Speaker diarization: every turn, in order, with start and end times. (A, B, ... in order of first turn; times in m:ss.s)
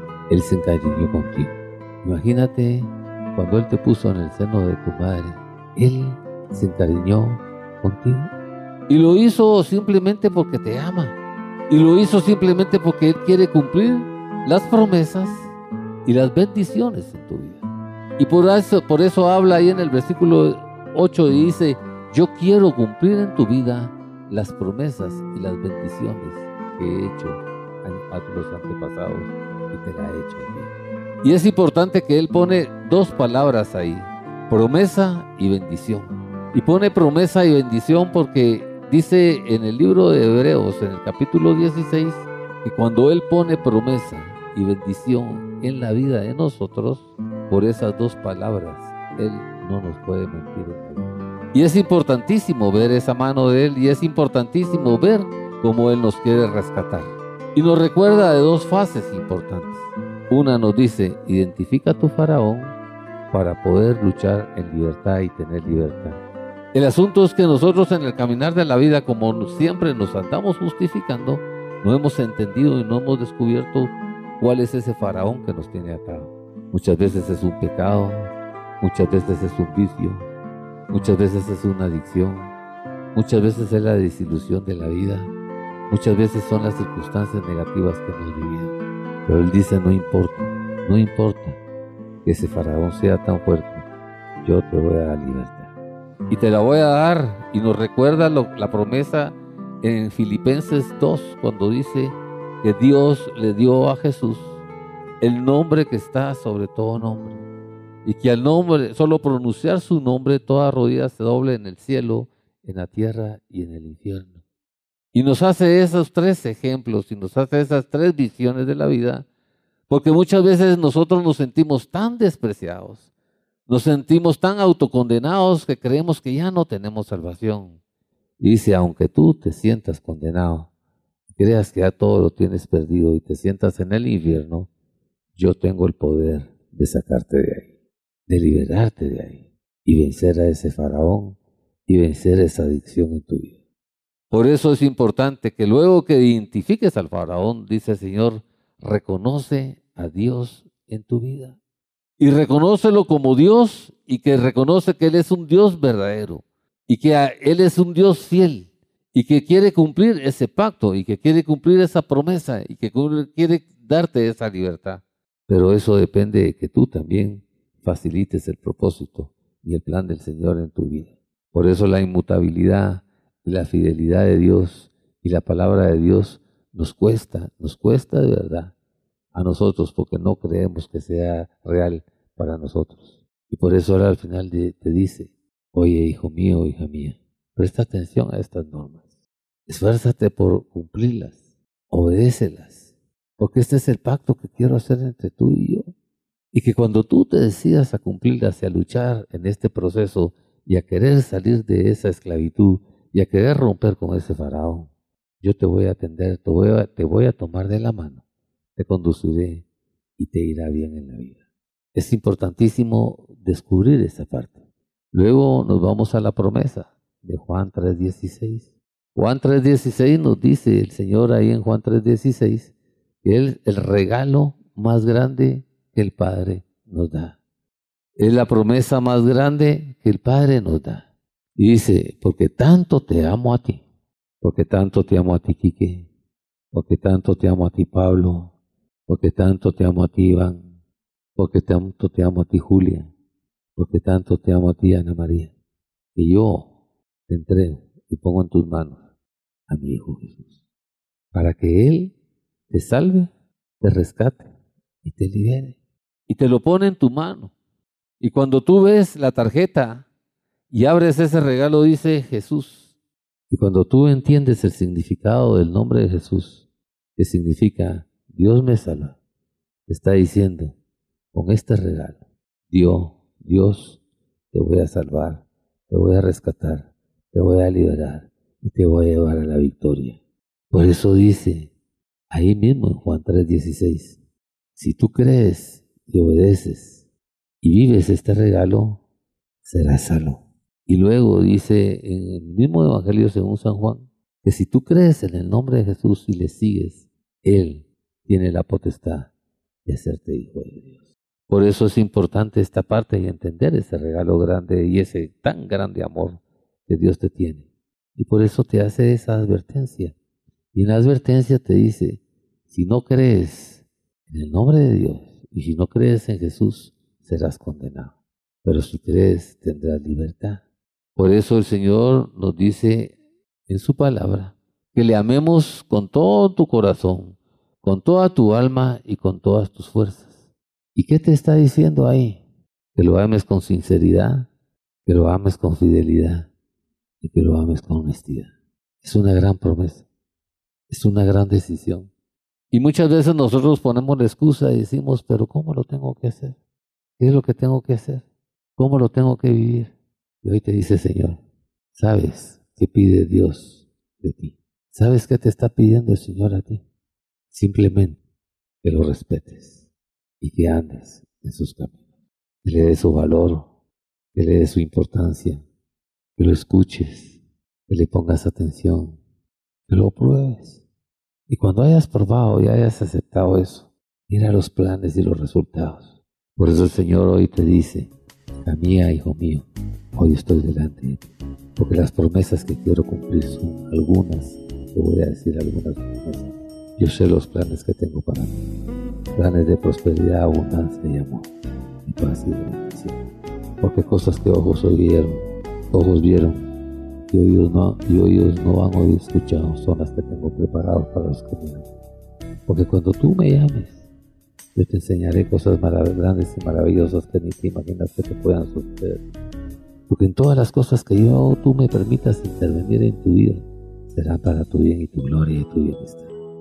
0:00.3-0:08.3 A
0:08.9-0:11.1 A
0:11.7-0:15.5 A
0:16.0-0:17.6 A
0:18.2-0:30.7 A
0:31.2-1:02.7 A
1:03.3-1:06.2 A
1:06.7-1:20.3 A
1:20.9-1:22.5 A
1:23.1-1:25.3 A
1:25.9-1:31.6 A
1:32.2-1:33.8 A
1:34.4-1:35.7 A
1:36.3-1:44.5 A
1:45.2-1:47.4 A
1:48.0-1:54.4 A
1:55.1-1:59.2 A
1:59.9-2:03.0 A
2:03.7-2:07.8 A
2:08.4-2:10.7 A
2:11.4-2:14.7 A
2:15.4-2:17.7 A
2:18.3-2:23.6 A
2:24.3-2:31.6 A
2:32.2-2:58.7 A
2:59.3-3:09.0 A
3:09.7-3:15.9 A
3:16.5-3:24.9 A
3:25.4-3:28.2 A
3:28.8-3:29.6 A
3:30.2-3:31.4 A
3:31.9-3:34.6 A
3:35.1-3:42.7 A
3:43.2-3:47.4 A
3:48.2-3:53.8 A
3:54.4-3:56.1 A
3:56.7-3:58.5 A
3:59.1-4:00.7 A
4:01.4-4:03.1 A
4:03.8-4:05.5 A
4:06.1-4:06.7 A
4:07.3-4:09.0 A
4:09.7-4:10.5 A
4:11.3-4:12.1 A
4:12.7-4:14.5 A
4:15.0-4:15.7 A
4:16.3-4:17.5 A
4:18.2-4:20.0 A
4:20.7-4:22.8 A
4:23.5-4:26.6 A
4:27.2-4:29.2 A
4:29.9-4:30.7 A
4:31.3-4:34.0 A
4:34.5-4:40.2 A
4:40.7-4:41.7 A
4:42.3-4:44.2 A
4:44.8-4:47.0 A
4:47.6-4:49.0 A
4:49.6-4:59.3 A
4:59.8-5:01.0 A
5:01.5-5:07.6 A
5:08.2-5:10.1 A
5:10.7-5:18.1 A
5:18.6-5:20.6 A
5:21.2-5:23.2 A
5:23.7-5:30.4 A
5:30.9-5:32.4 A
5:32.9-5:34.5 A
5:35.0-5:36.5 A
5:37.2-5:38.5 A
5:39.0-5:40.0 A
5:40.9-5:42.1 A
5:42.7-5:46.6 A
5:47.2-5:48.2 A
5:48.8-5:51.4 A
5:51.9-5:56.8 A
5:57.5-5:58.2 A
5:58.8-5:59.8 A
6:00.4-6:02.0 A
6:02.6-6:03.7 A
6:04.3-6:05.6 A
6:06.4-6:07.4 A
6:07.9-6:09.2 A
6:09.9-6:10.8 A
6:11.5-6:18.1 A
6:18.6-6:19.6 A
6:20.2-6:28.6 A
6:29.3-6:31.5 A
6:32.0-6:33.2 A
6:33.8-6:36.7 A
6:37.3-6:41.8 A
6:42.7-6:44.0 A
6:44.7-6:49.2 A
6:50.1-6:56.3 A